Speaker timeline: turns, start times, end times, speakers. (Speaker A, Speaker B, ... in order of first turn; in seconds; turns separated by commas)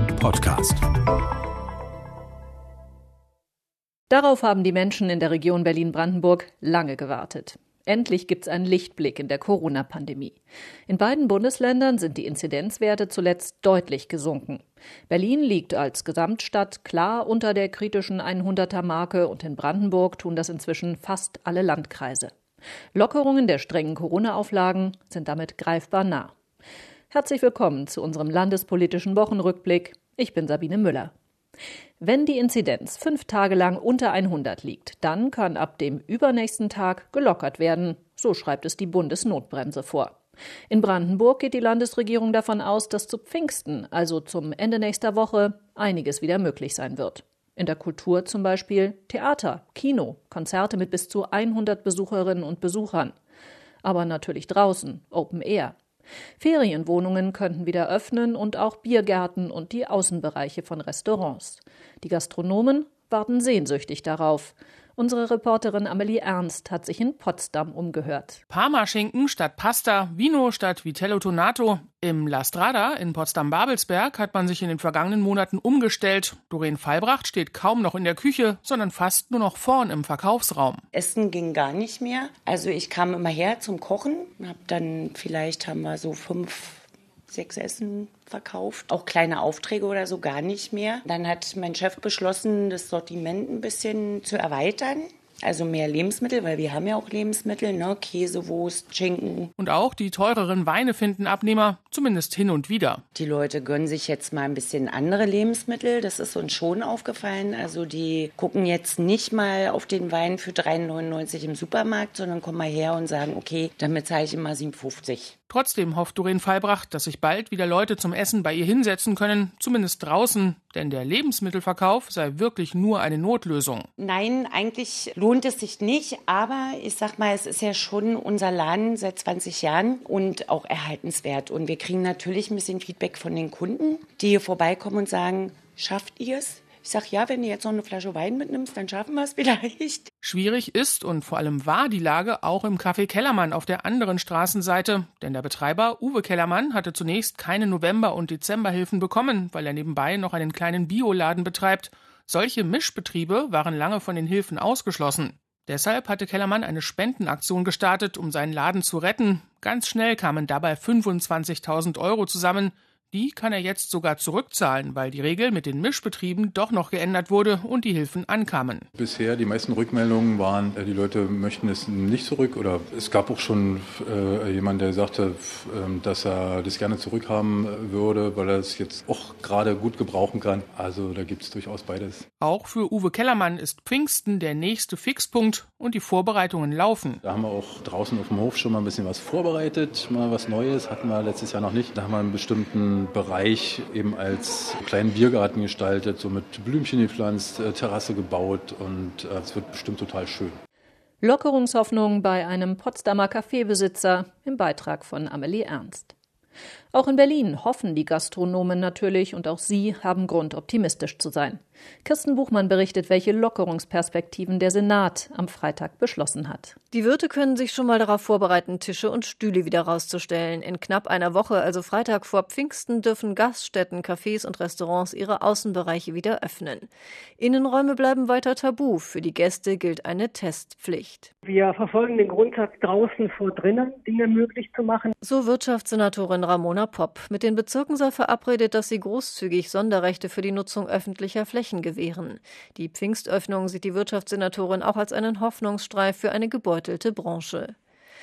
Speaker A: 4.1-10.4, Speaker A: 10.9-22.3, Speaker A: 22.9-26.3, Speaker A: 27.1-31.1, Speaker A: 32.0-40.2, Speaker A: 40.7-53.1, Speaker A: 53.8-55.8, Speaker A: 56.4-68.4, Speaker B: 68.5-80.8, Speaker C: 80.9-99.5, Speaker B: 99.6-103.0, Speaker C: 103.1-115.3, Speaker B: 115.5-123.9, Speaker C: 124.0-140.1, Speaker B: 140.2-168.8, Speaker D: 168.9-182.2, Speaker B: 182.4-187.2, Speaker D: 187.2-200.6, Speaker A: 201.2-206.1, Speaker A: 206.9-216.8, Speaker E: 216.9-231.3, Speaker F: 231.4-235.1, Speaker E: 235.2-247.8